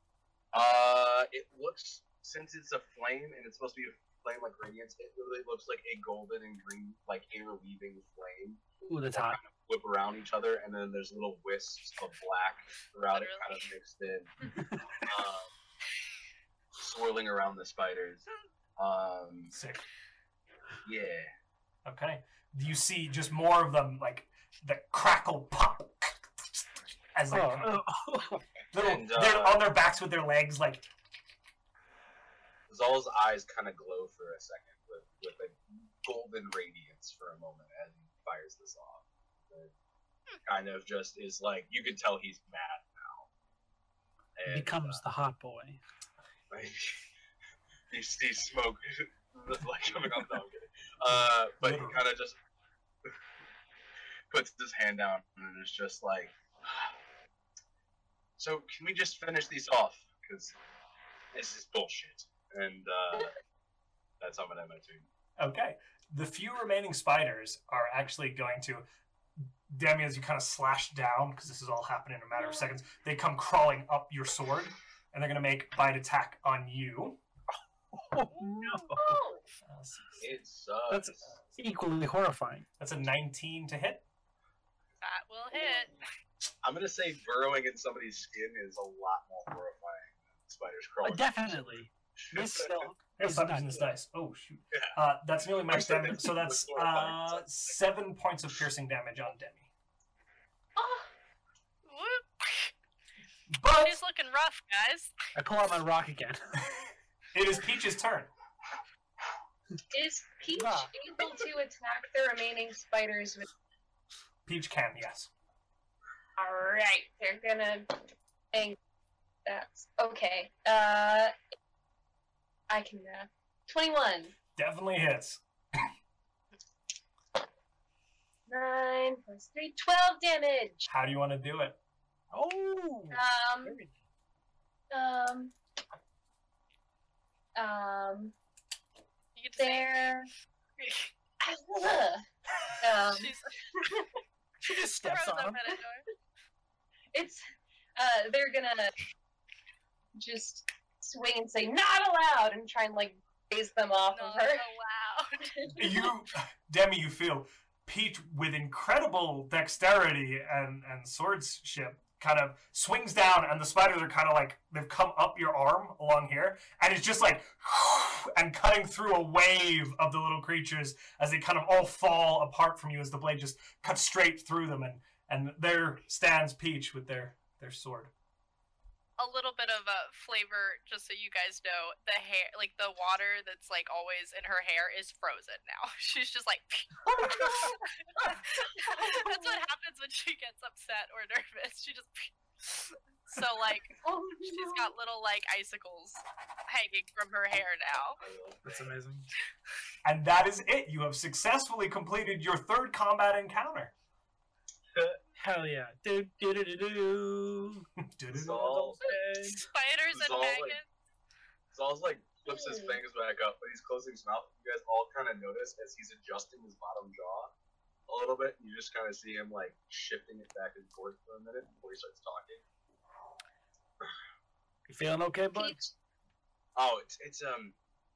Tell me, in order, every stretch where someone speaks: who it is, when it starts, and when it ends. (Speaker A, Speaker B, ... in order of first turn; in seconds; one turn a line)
Speaker A: 0.5-14.3
Speaker B: 8.8-9.4
Speaker C: 13.1-13.7
Speaker B: 14.5-14.9
Speaker A: 15.0-15.5
Speaker A: 16.8-18.2
Speaker A: 18.8-19.5
Speaker D: 19.5-19.8
Speaker A: 20.8-21.3
Speaker D: 21.8-26.6
Speaker D: 27.1-27.8
Speaker B: 27.3-28.4
Speaker D: 28.7-30.9
Speaker A: 28.7-29.6
Speaker A: 32.7-39.7
Speaker A: 40.4-43.3
Speaker A: 44.4-45.0
Speaker B: 44.5-45.8
Speaker A: 46.5-47.0
Speaker A: 47.9-52.4
Speaker D: 51.1-52.0
Speaker A: 54.3-57.0
Speaker A: 58.4-60.5
Speaker A: 61.3-63.3
Speaker A: 64.2-65.1
Speaker D: 65.4-68.8
Speaker D: 69.7-77.2
Speaker E: 72.3-72.7
Speaker B: 77.9-79.2
Speaker C: 78.3-78.9
Speaker E: 79.0-79.5
Speaker D: 79.7-80.3
Speaker A: 80.2-81.3
Speaker B: 80.9-82.7
Speaker D: 82.8-84.0
Speaker C: 85.0-86.0
Speaker A: 86.6-92.9
Speaker B: 91.0-93.9
Speaker D: 93.2-99.7
Speaker A: 95.6-97.7
Speaker E: 100.8-101.1
Speaker C: 101.8-102.7
Speaker D: 103.5-104.0
Speaker C: 103.8-105.1
Speaker B: 105.3-106.6
Speaker D: 107.3-108.3
Speaker E: 109.9-113.5
Speaker B: 110.5-110.9
Speaker D: 114.5-115.3
Speaker E: 116.4-118.8
Speaker E: 119.5-121.3
Speaker E: 122.7-124.3
Speaker D: 124.5-125.8
Speaker E: 128.5-130.9
Speaker D: 130.9-131.8
Speaker B: 132.3-133.9
Speaker E: 133.1-133.8
Speaker E: 134.9-135.5
Speaker E: 137.6-138.3
Speaker C: 139.3-140.2
Speaker E: 139.6-140.3
Speaker C: 140.8-141.1
Speaker E: 141.4-142.2
Speaker E: 142.8-144.1
Speaker C: 143.0-143.5
Speaker B: 144.6-145.6
Speaker C: 145.0-146.1
Speaker E: 147.1-147.4
Speaker E: 148.0-148.9
Speaker E: 150.2-154.6
Speaker C: 154.1-155.7
Speaker E: 155.6-156.1
Speaker D: 155.8-178.1
Speaker C: 179.2-198.2
Speaker E: 187.1-189.6
Speaker E: 194.0-194.9
Speaker A: 198.2-198.9
Speaker B: 198.6-199.3
Speaker D: 200.0-203.9
Speaker A: 204.9-205.2
Speaker B: 205.4-207.8
Speaker D: 208.0-208.8
Speaker A: 208.3-209.0
Speaker B: 208.5-209.7
Speaker C: 209.5-210.8
Speaker A: 210.1-210.8
Speaker A: 211.7-217.5
Speaker E: 212.5-213.0
Speaker A: 218.1-222.6
Speaker B: 224.9-225.9
Speaker E: 225.5-225.9
Speaker A: 226.8-227.8